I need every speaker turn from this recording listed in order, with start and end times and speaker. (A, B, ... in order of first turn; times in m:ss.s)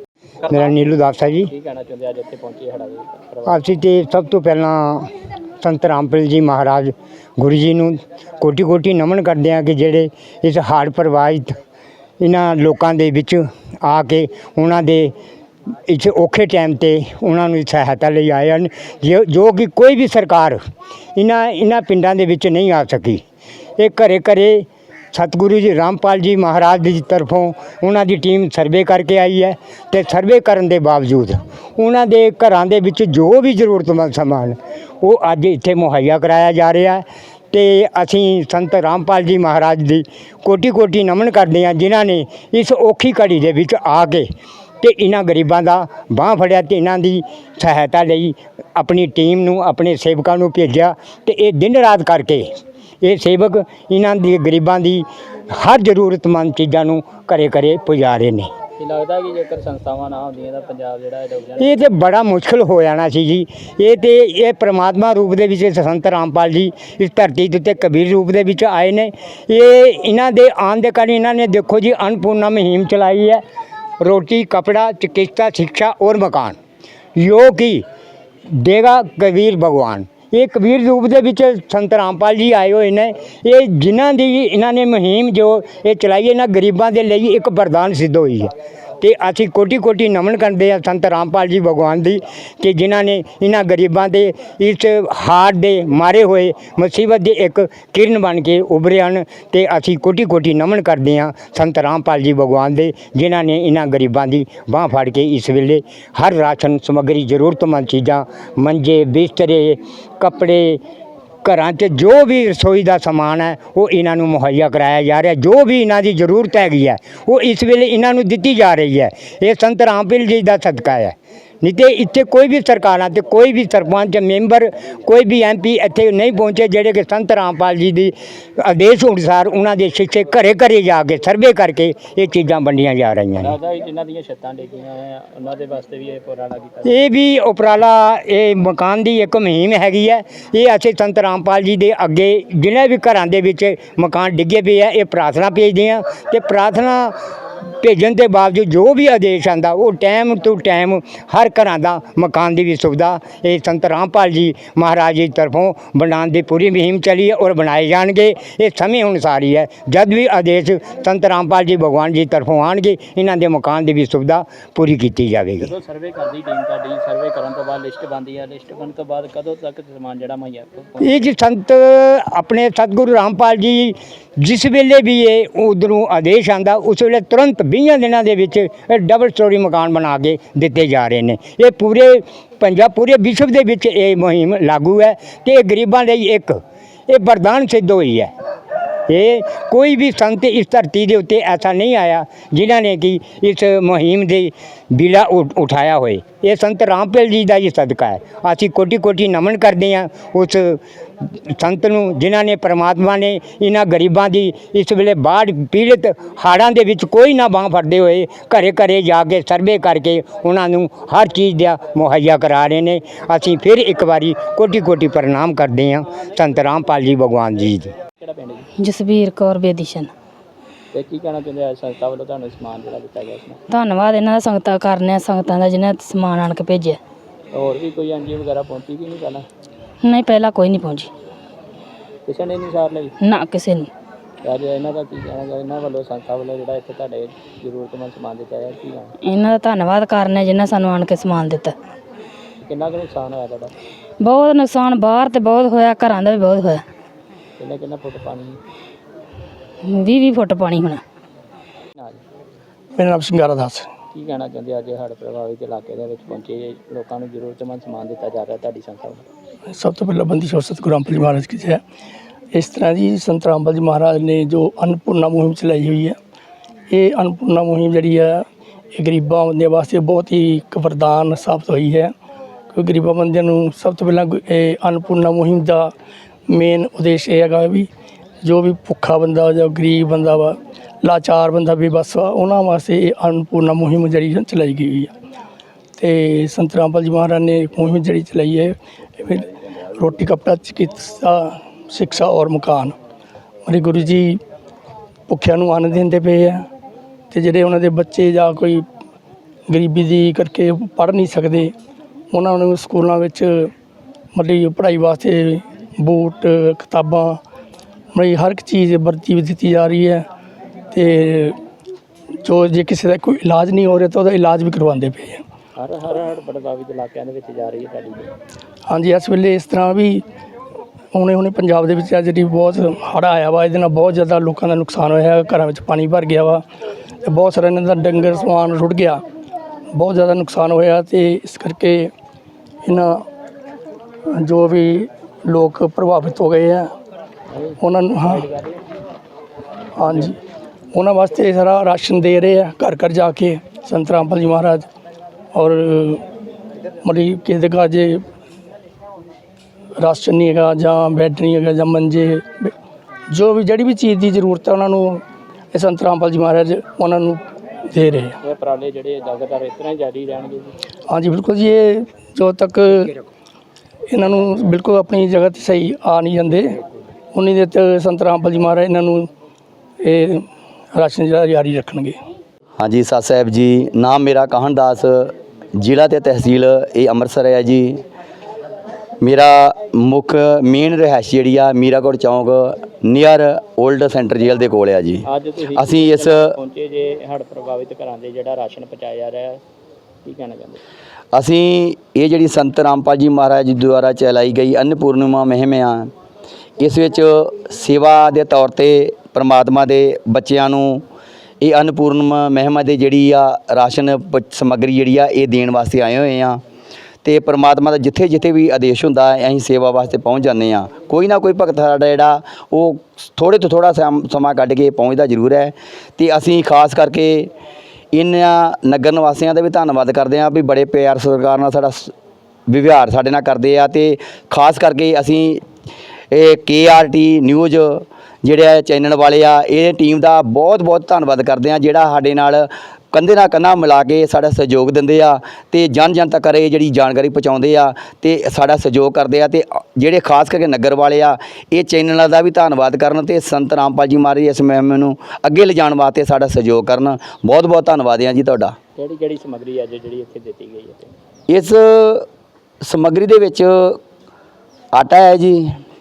0:00.5-0:01.5 A
0:01.4-0:03.6 B
0:03.5-0:05.1 A
0:05.6-0:11.6 A
0:12.2-0:15.1 A
0:15.9-0:20.6 A
0:21.2-0:23.2 A
0:23.8-0:44.3 A
0:44.8-0:52.5 A
0:53.0-0:58.5 A
0:58.8-1:01.7 B
1:01.6-1:13.4 A
1:14.0-1:16.6 A
1:17.2-1:17.8 A
1:18.5-1:50.8 A
1:51.4-2:13.6 A
2:13.4-2:17.0 B
2:16.8-2:27.2 A
2:27.8-2:45.7 A
2:45.6-2:51.2 B
2:51.0-3:08.3 A
3:09.1-3:20.8 A
3:21.5-3:37.9 A
3:38.2-3:38.7 B
3:38.8-3:40.1 C
3:40.9-3:43.6 B
3:43.7-3:47.0 C
3:47.5-3:49.4 B
3:50.0-3:51.1 C
3:52.3-3:53.2 B
3:53.2-3:53.9 C
3:54.4-3:59.1 B
3:59.2-4:01.7 C
4:02.6-4:03.7 B
4:04.2-4:06.8 C
4:07.6-4:08.6 B
4:09.9-4:11.0 C
4:13.0-4:13.9 D
4:14.1-4:19.3 B
4:19.7-4:21.8 D
4:22.5-4:26.2 D
4:26.9-4:32.1 D
4:32.7-4:35.9 D
4:36.5-4:37.9 D
4:38.4-4:45.1 D
4:46.0-4:53.0 D
4:53.7-4:54.4 D
4:55.3-4:56.7 D
4:57.3-4:58.9 D
4:59.7-5:01.8 D
5:02.3-5:03.7 D
5:04.3-5:07.4 D
5:08.1-5:10.3 D
5:10.9-5:11.6 D
5:12.4-5:15.4 D
5:15.8-5:18.3 B
5:18.9-5:20.2 D
5:21.1-5:26.6 D
5:27.2-5:29.2 D
5:29.9-5:32.1 D
5:32.8-5:33.3 D
5:34.3-5:36.9 D
5:37.5-5:38.8 B
5:37.8-5:38.5 D
5:40.0-5:40.4 D
5:40.9-5:44.9 D
5:45.5-5:46.2 D
5:47.0-5:48.2 D
5:50.0-5:52.7 D
5:53.3-5:58.4 D
5:58.4-6:00.7 B
6:01.1-6:03.2 D
6:04.1-6:06.8 D
6:07.3-6:09.3 D
6:10.0-6:12.2 D
6:12.8-6:18.0 E
6:19.2-6:26.5 E
6:25.3-6:29.6 B
6:30.2-6:30.8 B
6:31.3-6:36.1 E
6:36.8-6:41.0 E
6:41.6-6:46.6 E
6:47.2-6:57.5 E
6:58.1-7:02.1 E
7:02.7-7:05.6 E
7:06.3-7:28.8 E
7:29.0-7:31.1 B
7:31.5-7:32.3 E
7:32.8-7:34.0 E
7:34.9-7:35.8 E